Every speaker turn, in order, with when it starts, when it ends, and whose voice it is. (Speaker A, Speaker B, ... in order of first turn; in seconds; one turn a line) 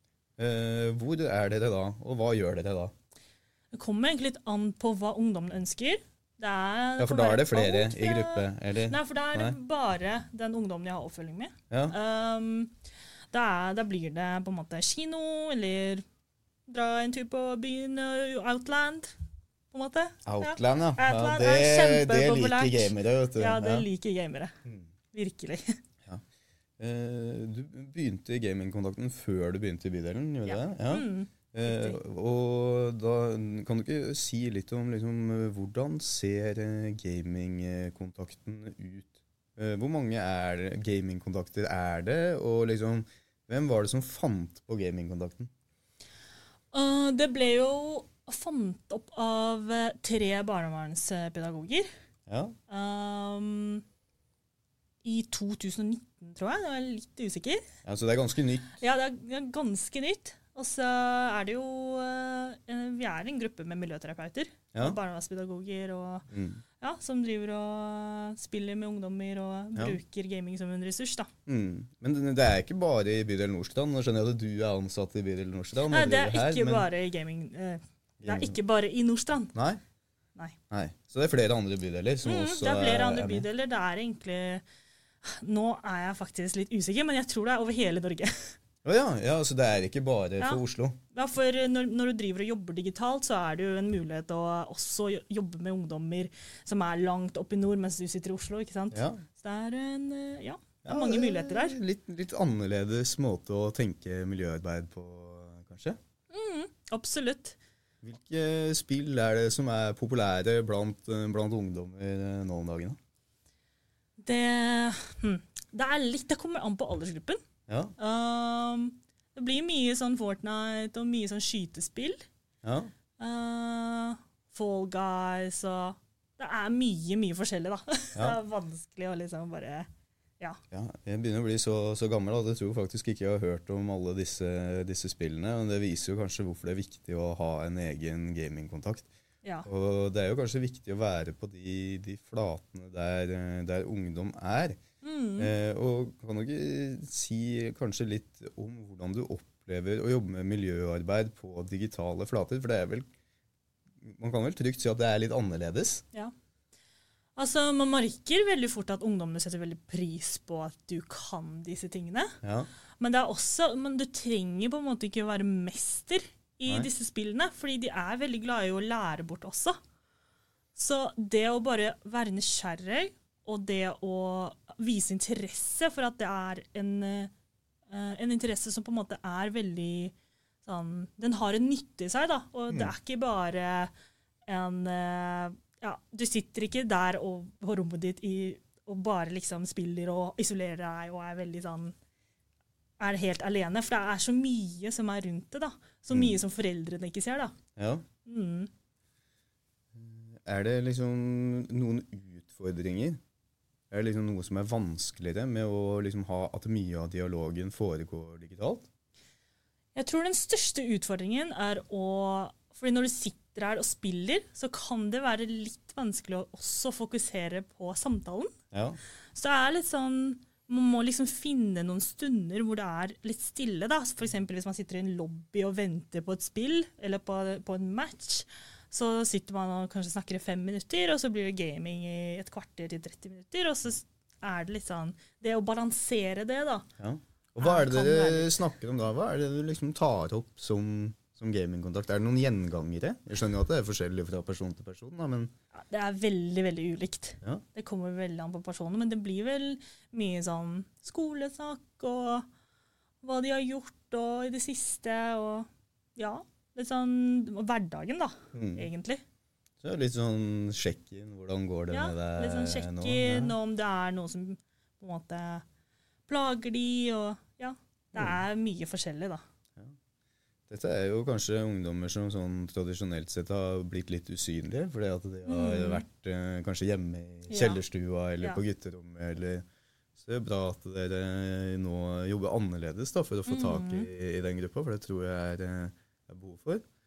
Speaker A: 0.4-2.9
Speaker B: 3.7-12.7
Speaker A: 7.0-9.6
Speaker A: 11.7-11.9
Speaker B: 13.3-16.0
Speaker B: 16.7-19.1
Speaker B: 19.7-24.5
Speaker A: 20.2-23.9
Speaker B: 25.1-25.8
Speaker A: 26.8-45.5
Speaker B: 30.4-32.0
Speaker B: 46.7-51.9
Speaker A: 52.3-52.5
Speaker B: 52.7-53.8
Speaker B: 55.0-57.6
Speaker A: 57.8-58.8
Speaker B: 58.8-66.2
Speaker A: 66.3-66.6
Speaker B: 66.8-71.3
Speaker A: 71.5-76.9
Speaker B: 75.9-79.5
Speaker A: 78.2-78.6
Speaker A: 79.5-79.8
Speaker A: 80.7-83.5
Speaker B: 82.2-84.6
Speaker B: 85.2-88.5
Speaker A: 88.8-91.0
Speaker B: 90.4-101.8
Speaker A: 98.9-99.2
Speaker A: 100.8-106.0
Speaker B: 106.3-107.6
Speaker A: 108.0-113.0
Speaker B: 114.2-117.4
Speaker A: 117.7-117.9
Speaker B: 118.0-122.2
Speaker A: 122.6-122.9
Speaker B: 123.2-129.9
Speaker A: 130.7-139.1
Speaker B: 139.4-139.7
Speaker A: 139.7-144.8
Speaker B: 145.0-145.5
Speaker A: 145.4-153.0
Speaker A: 154.0-156.0
Speaker B: 157.3-162.3
Speaker A: 162.4-162.7
Speaker B: 163.0-169.8
Speaker B: 170.8-177.3
Speaker B: 177.9-183.9
Speaker B: 184.5-191.9
Speaker B: 193.0-197.5
Speaker A: 196.1-196.4
Speaker A: 197.8-198.0
Speaker B: 198.2-198.7
Speaker A: 199.9-203.2
Speaker A: 203.9-208.9
Speaker B: 209.9-218.5
Speaker A: 218.7-219.0
Speaker B: 219.3-236.8
Speaker A: 237.0-245.5
Speaker B: 237.6-238.6
Speaker B: 245.7-252.4
Speaker B: 253.2-259.2
Speaker A: 258.5-258.9
Speaker A: 259.8-263.5
Speaker B: 261.9-265.6
Speaker B: 266.3-269.4
Speaker A: 270.7-279.6
Speaker B: 275.5-276.0
Speaker B: 277.5-277.8
Speaker A: 280.2-286.8
Speaker B: 283.5-284.1